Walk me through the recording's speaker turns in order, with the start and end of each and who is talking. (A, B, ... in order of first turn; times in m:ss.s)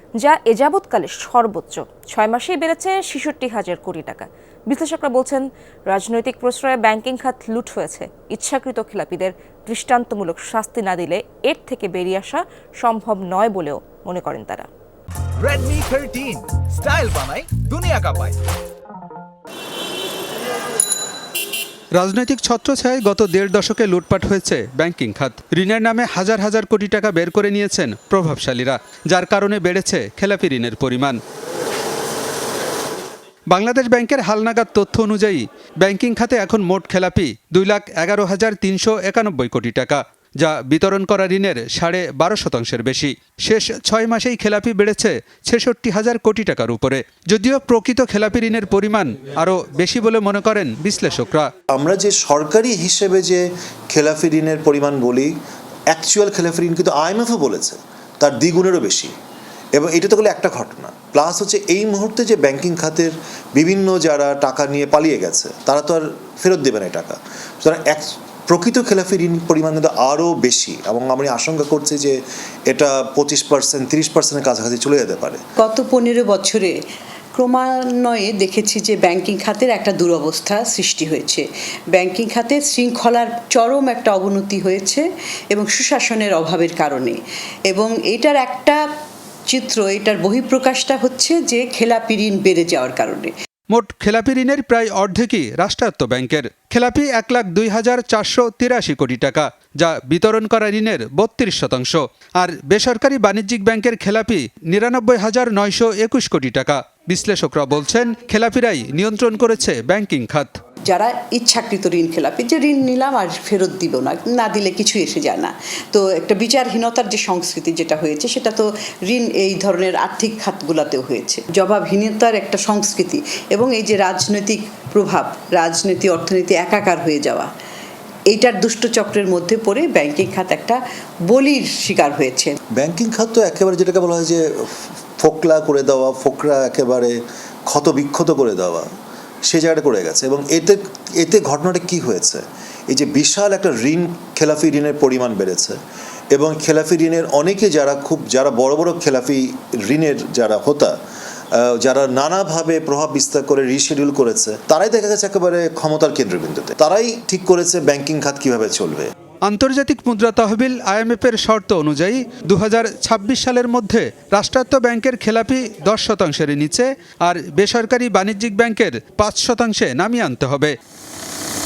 0:00.2-0:14.7 A
0:15.4-0:18.4 B
0:21.9-0:31.2 C
0:33.5-0:51.5 C
0:51.7-0:55.3 D
0:55.9-0:59.1 D
0:59.7-1:15.4 D
1:15.6-1:16.8 E
1:17.3-1:28.8 E
1:29.5-1:33.3 E
1:33.7-1:50.6 C
1:50.8-2:07.5 E
2:08.3-2:12.6 E
2:12.7-2:18.9 D
2:19.4-2:25.8 D
2:26.3-2:31.0 D
2:31.5-2:39.1 D
2:39.4-2:50.7 C